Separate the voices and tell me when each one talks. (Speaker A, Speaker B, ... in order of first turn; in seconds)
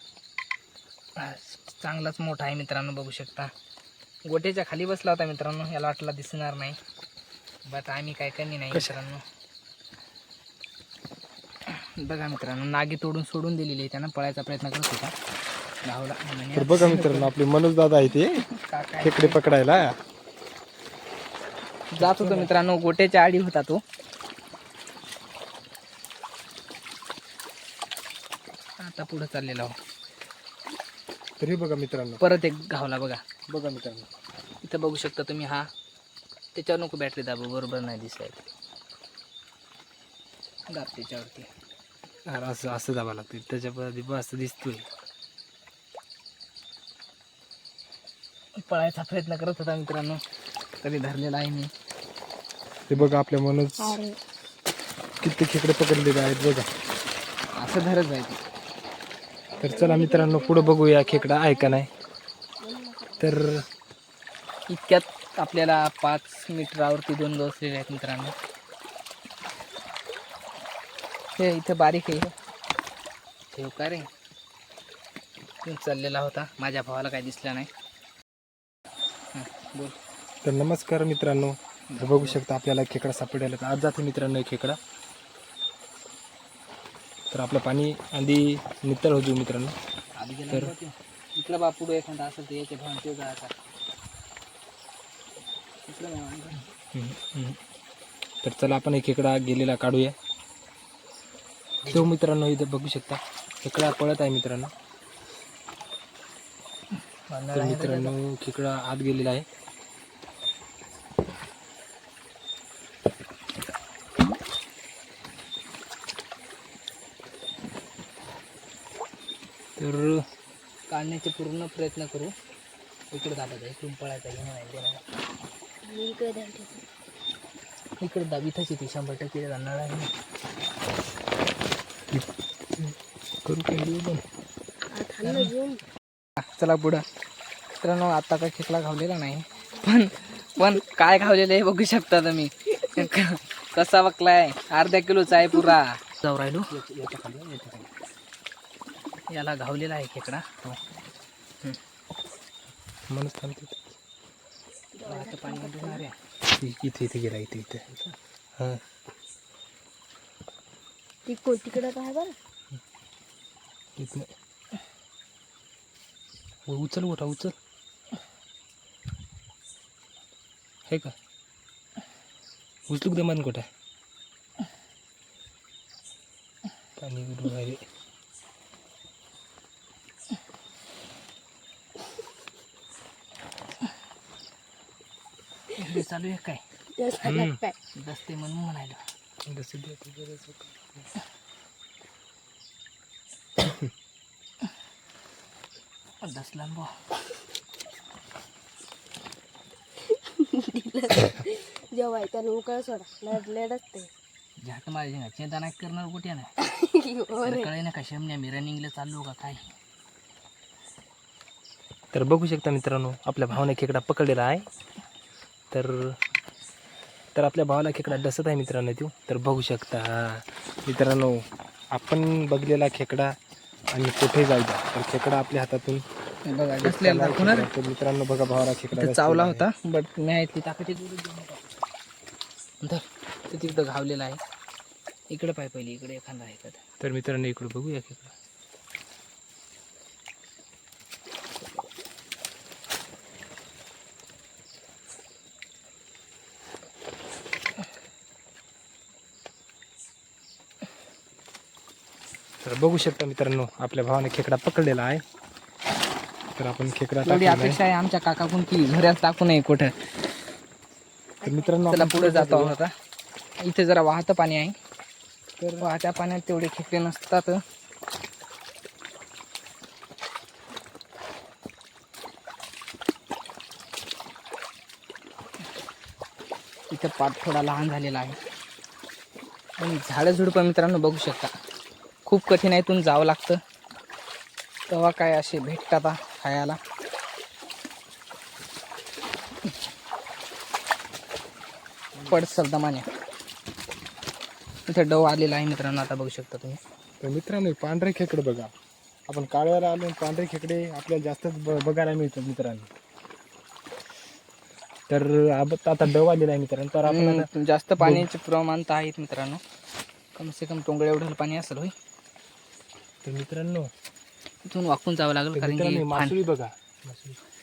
Speaker A: 1.2-3.5, 4.3-6.8, 7.7-9.2, 11.7-15.1, 15.8-17.3, 18.5-19.4, 21.9-23.8, 28.8-29.7, 32.2-33.2, 34.6-35.7, 36.5-38.4, 40.7-41.5, 48.6-50.2, 50.8-51.7, 57.6-58.4, 64.7-68.3, 71.4-72.3, 73.5-74.1, 75.6-77.7, 79.3-80.0, 81.9-82.4, 90.2-93.5, 95.9-96.7, 107.3-108.1, 120.9-122.3, 123.1-125.0, 128.0-130.1, 135.2-135.5, 136.6-137.0, 137.8-146.7, 149.3-150.5, 155.0-156.1, 185.8-186.6, 188.0-189.0, 196.2-196.9, 204.6-206.5, 207.4-209.7, 226.5-227.7, 228.9-231.8, 232.8-234.4, 235.3-236.8, 257.2-259.9, 261.9-262.9, 263.6-264.8, 265.8-267.6, 276.9-278.4, 279.8-281.5, 282.2-283.6, 284.9-286.8, 292.3-293.1, 294.9-296.8, 307.0-309.6, 310.3-311.9, 314.6-316.4
Speaker B: 8.7-8.9, 16.5-18.4, 19.0-19.9, 22.0-22.5, 31.4-32.2, 33.5-34.1, 42.3-44.9, 52.9-54.0, 55.2-56.7, 59.6-61.9, 63.2-63.6, 80.4-84.8, 87.3-89.7, 96.9-97.6, 98.4-100.1, 101.8-104.7, 107.5-109.5, 119.8-120.2, 132.1-134.2, 146.7-147.9, 153.1-153.9, 156.5-157.8, 158.6-158.8, 164.0-164.3, 166.7-167.5, 170.9-171.1, 172.9-173.7, 177.0-177.8, 187.2-187.6, 189.4-191.1, 193.6-193.9, 212.1-214.7, 215.7-216.2, 217.3-223.3, 223.9-226.0, 226.8-229.7, 237.0-238.3, 252.6-255.2, 256.6-257.8, 261.4-262.8, 265.6-265.9, 292.1-292.4, 297.2-298.7, 299.3-302.9, 305.1-307.5, 308.0-308.3, 313.2-313.9, 315.5-317.4
Speaker C: 53.8-54.1, 59.5-61.8, 62.6-63.4, 125.8-126.8, 134.9-135.8, 154.9-156.0, 161.2-162.3, 187.0-187.7, 200.1-204.1, 206.6-207.7, 261.4-261.7